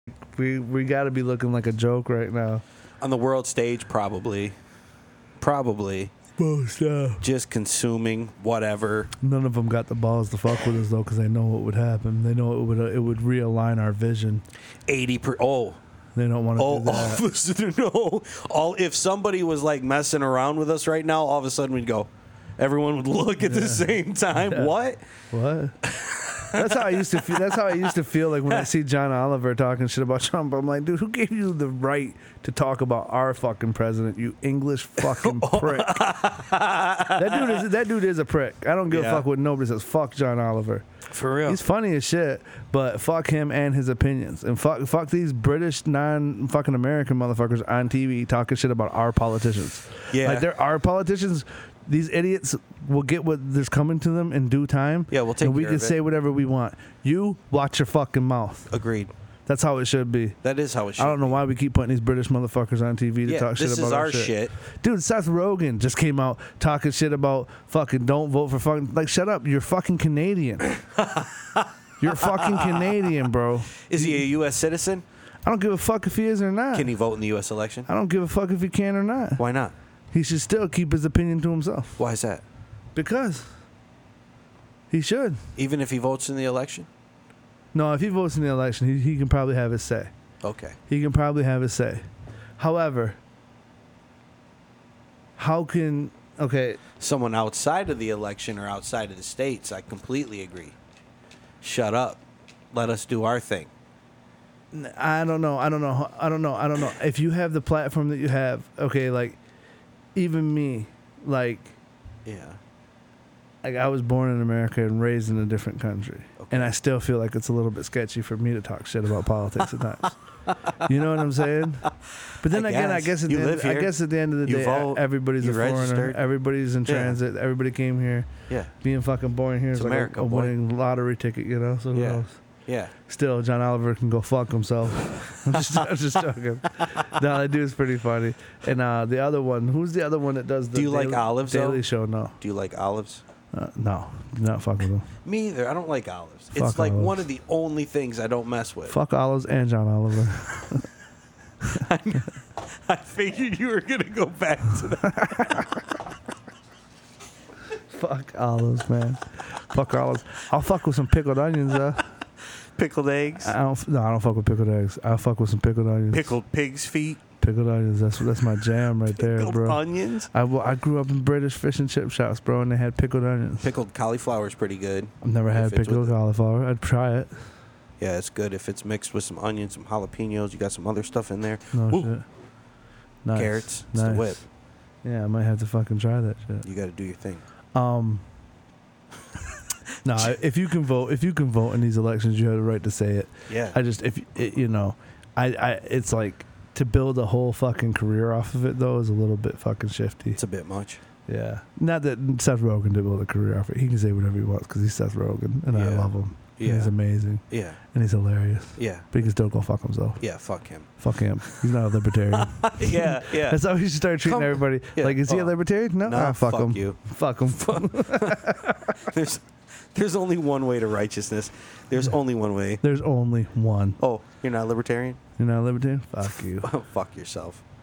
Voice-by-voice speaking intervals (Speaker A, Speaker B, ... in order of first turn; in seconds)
Speaker A: 0.3-2.6, 6.4-7.2, 9.2-14.4, 16.1-17.2, 23.4-24.7, 25.3-25.8, 26.5-36.1, 37.1-40.9, 41.5-58.7, 59.5-60.4, 61.0-70.7, 72.0-74.2, 75.4-76.9, 77.9-79.4, 80.1-82.0, 82.9-83.5, 84.9-85.4, 87.7-90.1, 90.9-92.1, 92.6-93.2, 95.4-96.8, 104.7-109.4, 110.2-111.8, 113.6-120.2, 120.7-132.4, 133.1-142.4, 143.5-145.1, 146.6-147.3, 148.9-150.8, 157.9-162.0, 163.4-166.4, 167.4-173.7, 175.2-177.5, 181.7-182.3, 183.2-184.5, 185.0-186.7, 187.7-188.3, 190.0-200.4, 201.3-219.0, 222.8-224.0, 225.4-226.7
Speaker B: 3.0-4.6, 5.4-6.1, 7.2-9.1, 14.9-15.8, 16.6-25.0, 25.9-27.7, 35.0-37.6, 38.9-39.2, 41.1-41.6, 50.1-50.5, 55.1-56.0, 58.7-59.1, 60.4-61.4, 63.3-64.5, 71.0-72.9, 73.9-75.0, 76.7-77.9, 79.4-79.7, 82.0-82.4, 85.6-86.9, 90.4-90.8, 97.0-100.8, 101.6-103.7, 112.2-112.6, 116.4-116.7, 122.5-123.9, 124.5-126.2, 126.9-127.2, 129.7-130.5, 131.9-132.9, 140.7-141.9, 142.4-143.2, 145.2-149.0, 151.7-155.7, 162.8-163.5, 166.1-167.2, 169.2-170.3, 173.6-176.2, 178.0-182.1, 183.3-184.4, 186.6-187.4, 193.5-193.8, 200.4-201.0, 205.7-207.8, 208.8-209.1, 210.2-210.9, 212.3-213.6, 214.2-217.0, 217.7-218.5, 219.0-222.8, 224.0-225.2, 226.6-227.6